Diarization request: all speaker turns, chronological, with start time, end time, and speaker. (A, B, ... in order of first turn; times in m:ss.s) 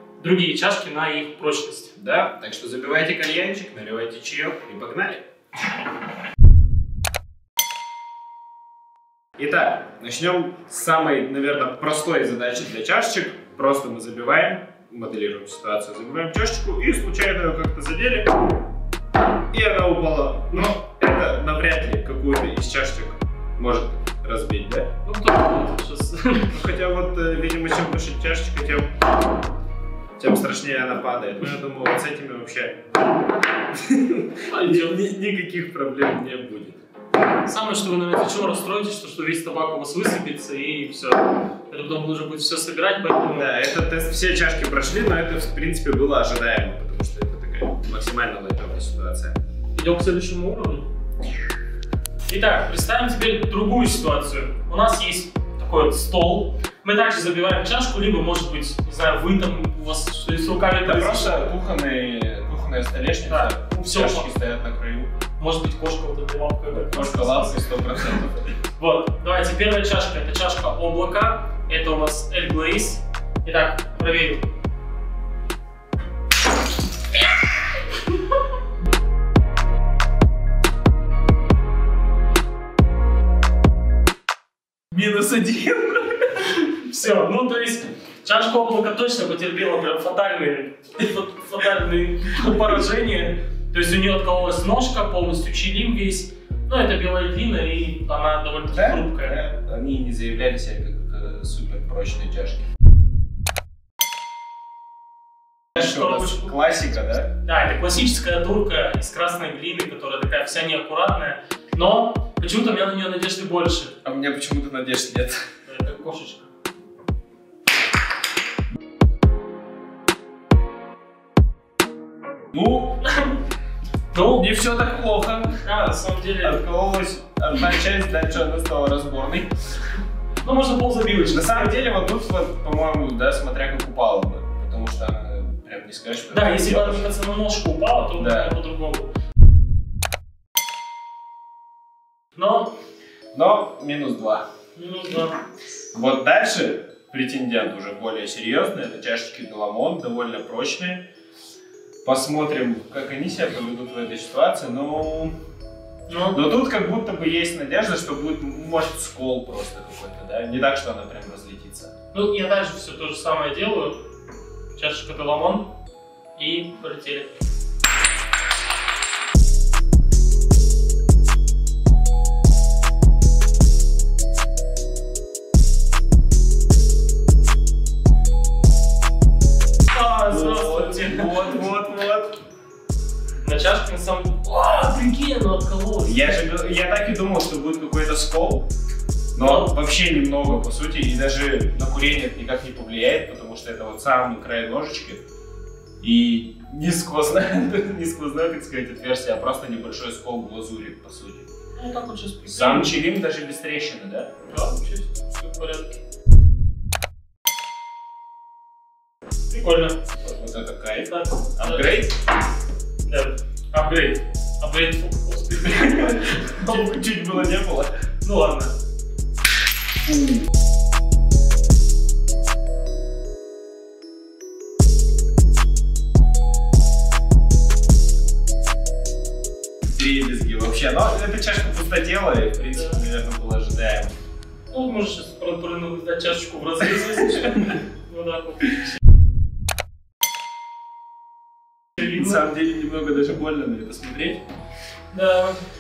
0:00.2-0:01.9 A
0:02.0-0:05.2 B
0:09.4-0:18.3 B
0:19.5-0:24.9 B
0:25.0-0:26.6 A
0:26.5-0:28.9 B
0:30.2-0:32.9 B
0:33.7-0:36.8 B
0:34.4-0:35.0 A
0:37.4-0:43.5 A
0:43.3-0:49.4 B
0:49.8-0:50.9 A
0:52.3-1:01.4 A
1:00.8-1:05.1 B
1:03.3-1:04.3 A
1:05.4-1:07.6 A
1:06.7-1:08.5 B
1:08.8-1:14.4 A
1:24.9-1:26.4 B
1:26.6-1:39.4 A
1:38.7-1:42.6 B
1:45.7-1:46.5 A
1:45.7-1:47.3 B
1:47.4-1:53.9 A
1:54.0-1:55.4 B
1:55.7-1:56.5 A
2:02.5-2:03.0 B
2:03.0-2:03.3 A
2:04.1-2:04.4 A
2:04.3-2:05.7 B
2:05.6-2:06.6 A
2:06.4-2:09.5 B
2:10.4-2:11.9 A
2:11.3-2:17.0 B
2:16.3-2:19.1 A
2:18.2-2:18.5 B
2:22.4-2:22.7 A
2:23.3-2:24.4 B
2:24.8-2:25.4 A
2:25.9-2:31.0 B
2:32.0-2:35.3 B
2:36.1-2:36.4 A
2:36.3-2:41.9 B
2:42.1-2:44.0 A
2:44.8-2:45.7 A
2:46.4-2:47.3 A
2:59.9-3:01.6 A
3:00.3-3:02.4 B
3:03.4-3:06.4 A
3:06.0-3:08.7 B
3:09.3-3:15.2 B
3:09.4-3:09.7 A
3:16.0-3:21.5 B
3:21.8-3:22.9 A
3:22.4-3:24.3 B
3:24.5-3:26.0 A
3:29.5-3:30.0 A
3:30.2-3:32.2 B
3:31.1-3:32.0 A
3:33.1-3:36.9 A
3:35.7-3:37.9 B
3:38.2-3:38.7 A
3:40.0-3:40.4 B
3:49.9-3:54.1 B
3:52.7-3:53.0 A
3:54.7-3:59.0 A
3:57.0-3:57.8 B
4:02.0-4:04.4 B
4:05.1-4:05.6 A